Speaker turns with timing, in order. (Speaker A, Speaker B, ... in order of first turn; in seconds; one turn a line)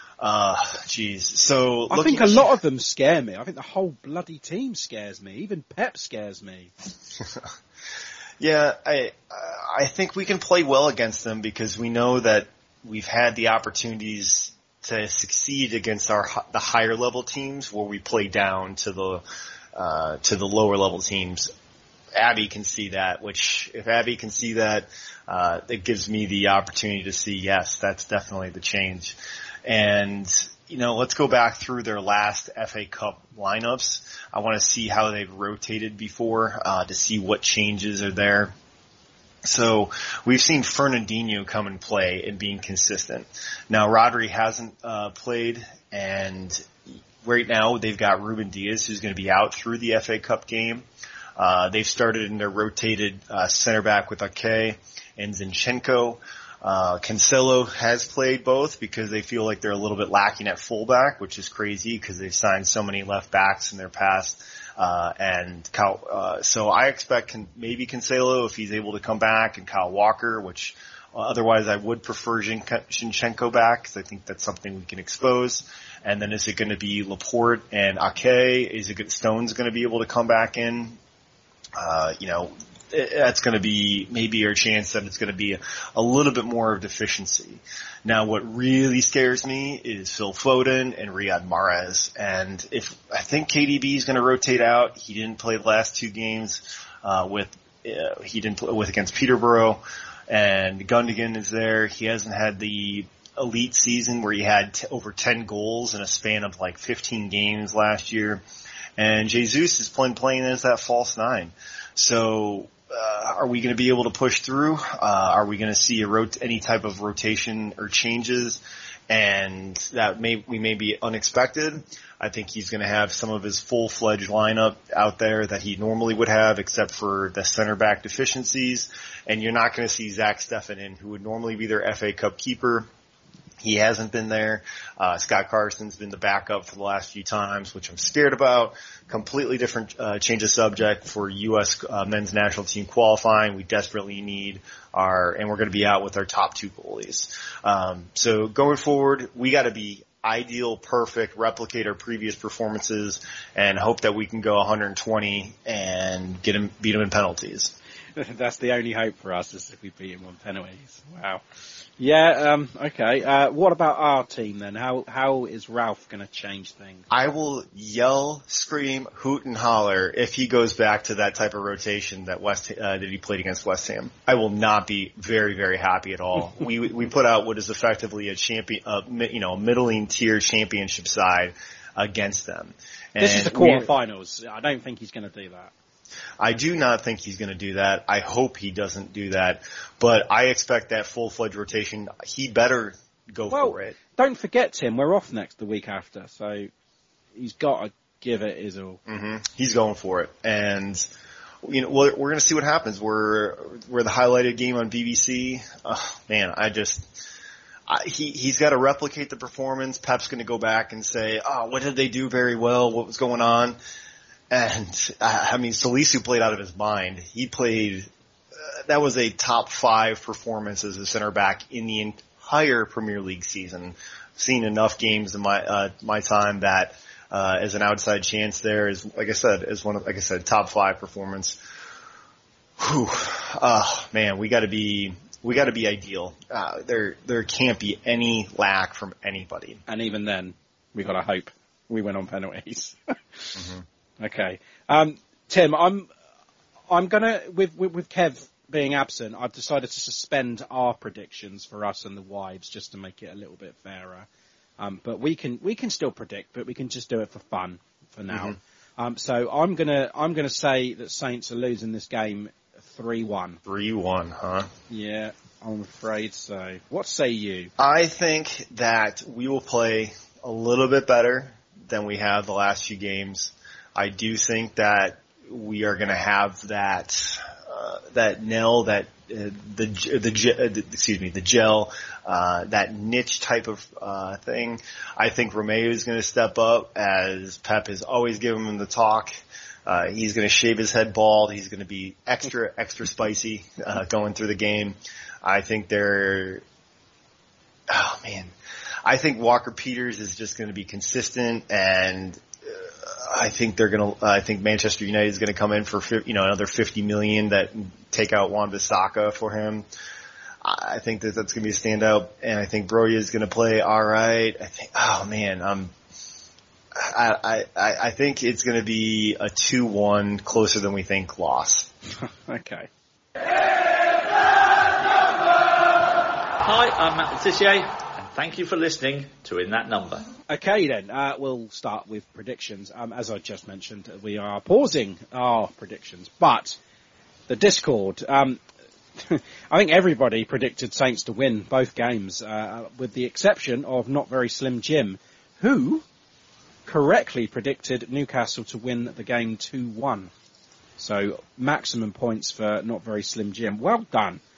Speaker A: 0.2-2.5
Speaker B: 1.9-6.7
Speaker A: 7.2-7.5
Speaker A: 8.4-19.2
Speaker A: 19.7-21.5
Speaker A: 22.1-38.5
Speaker A: 39.4-46.7
Speaker A: 47.2-50.9
Speaker A: 51.4-81.0
Speaker A: 81.8-108.4
Speaker A: 109.0-132.9
Speaker A: 133.6-157.7
Speaker B: 158.2-161.4
Speaker B: 162.0-167.1
Speaker A: 167.1-183.9
Speaker B: 183.2-185.7
Speaker A: 186.4-193.9
Speaker B: 193.5-196.7
Speaker B: 197.3-199.0
Speaker A: 199.1-201.1
Speaker A: 201.6-207.3
Speaker A: 207.9-213.8
Speaker A: 214.5-231.6
Speaker A: 232.8-239.8
Speaker B: 239.9-246.1
Speaker B: 246.9-254.3
Speaker B: 254.8-263.6
Speaker A: 258.3-258.6
Speaker A: 263.6-264.7
Speaker B: 264.9-267.7
Speaker A: 267.8-289.3
Speaker A: 289.9-296.6
Speaker A: 297.9-298.5
Speaker A: 299.0-309.9
Speaker A: 310.6-315.9
Speaker A: 316.9-321.9
Speaker B: 322.2-322.9
Speaker C: 326.6-330.3
Speaker B: 330.5-336.8
Speaker B: 337.5-338.6
Speaker B: 339.1-346.0
Speaker B: 346.9-350.3
Speaker B: 351.0-354.4